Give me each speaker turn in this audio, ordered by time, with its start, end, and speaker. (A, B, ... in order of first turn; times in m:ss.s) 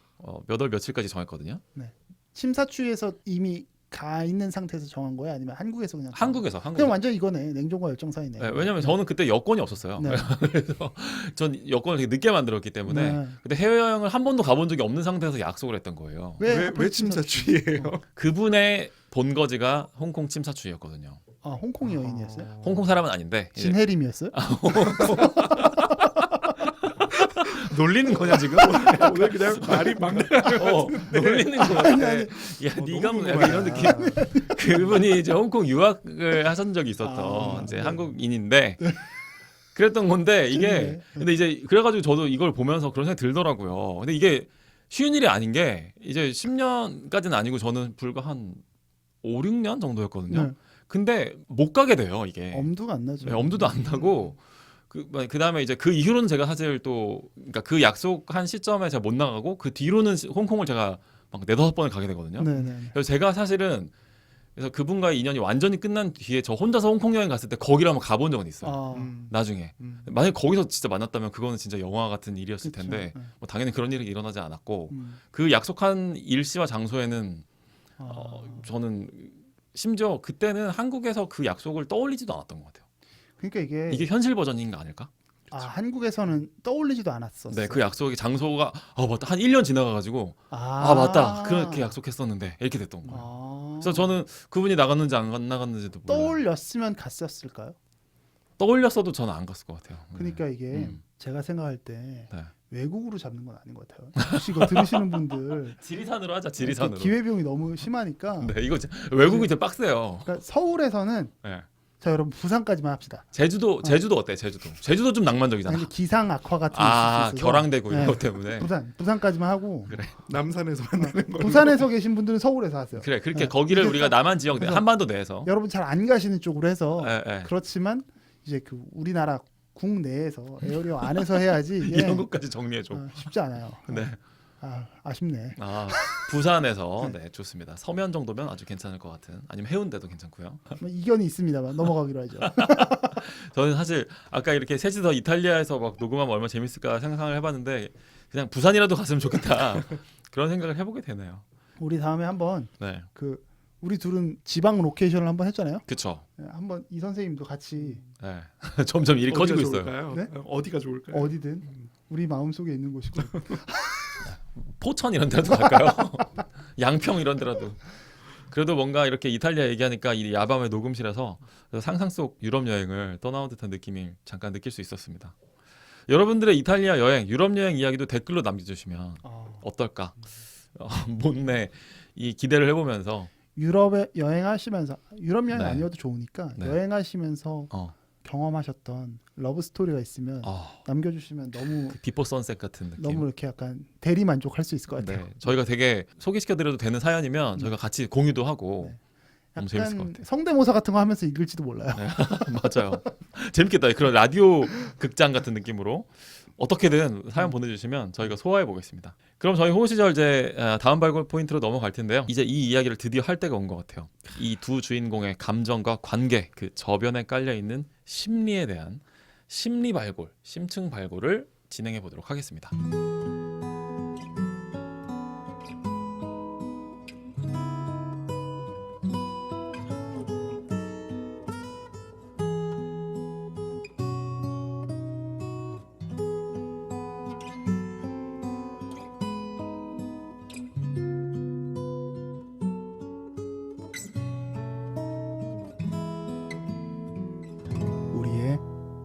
0:00.2-0:01.6 A
0:01.7-0:09.0 B
0:06.1-0:06.9 A
0:08.4-0:16.4 A
0:10.0-0:10.3 B
0:12.8-0:13.4 B
0:16.4-0:17.9 B
0:16.4-0:18.0 C
0:18.1-0:21.2 A
0:21.4-0:22.5 B
0:21.9-0:22.9 C
0:22.6-0:25.7 A
0:23.5-0:25.9 B
0:25.0-0:25.7 C
0:27.1-0:31.9 C
0:27.4-0:39.0 A
0:31.6-0:32.6 B
0:32.7-0:35.0 C
0:33.3-0:35.0 B
0:37.0-0:38.1 B
0:37.4-0:37.8 C
0:39.7-0:48.6 A
0:40.5-0:41.3 B
0:49.2-1:03.9 A
0:50.3-0:50.5 B
0:52.5-0:54.2 B
1:02.4-1:03.0 B
1:04.6-1:17.4 A
1:08.6-1:09.1 B
1:08.9-1:10.1 C
1:12.6-1:13.3 B
1:14.9-1:15.2 B
1:18.0-1:18.7 B
1:18.0-1:22.8 A
1:23.4-1:24.1 B
1:23.9-1:25.6 A
1:25.5-1:27.8 B
1:27.5-1:33.3 A
1:30.5-1:32.0 B
1:33.0-1:34.2 B
1:33.8-1:36.4 A
1:36.1-1:37.8 B
1:38.6-1:41.0 A
1:40.1-1:45.8 B
1:45.8-1:47.2 A
1:46.6-1:49.6 B
1:48.4-1:50.4 A
1:50.2-1:51.3 B
1:52.0-1:54.0 B
1:53.3-1:55.9 A
1:55.6-2:00.0 B
1:56.7-1:58.7 A
1:59.9-2:00.2 A
2:00.2-2:01.9 C
2:01.0-2:16.2 B
2:03.0-2:05.5 A
2:07.0-2:07.5 A
2:11.8-2:13.3 A
2:13.8-2:14.2 A
2:15.6-2:20.6 A
2:20.8-2:23.2 B
2:22.4-2:31.4 A
2:31.8-2:38.0 B
2:32.8-2:33.1 A
2:35.9-2:36.2 A
2:38.2-2:39.9 A
2:39.3-2:41.8 C
2:41.1-2:44.3 B
2:43.2-2:43.6 C
2:44.2-2:55.3 A
2:45.5-2:46.0 B
2:56.1-3:00.2 A
2:59.2-2:59.7 B
3:00.7-3:03.3 A
3:03.5-3:12.0 B
3:05.5-3:05.9 A
3:07.7-3:08.0 A
3:10.4-3:10.8 A
3:11.9-3:13.2 A
3:13.0-3:15.6 B
3:15.0-3:19.0 A
3:19.5-3:23.0 B
3:19.6-3:20.2 A
3:21.9-3:42.7 A
4:08.1-4:08.6 B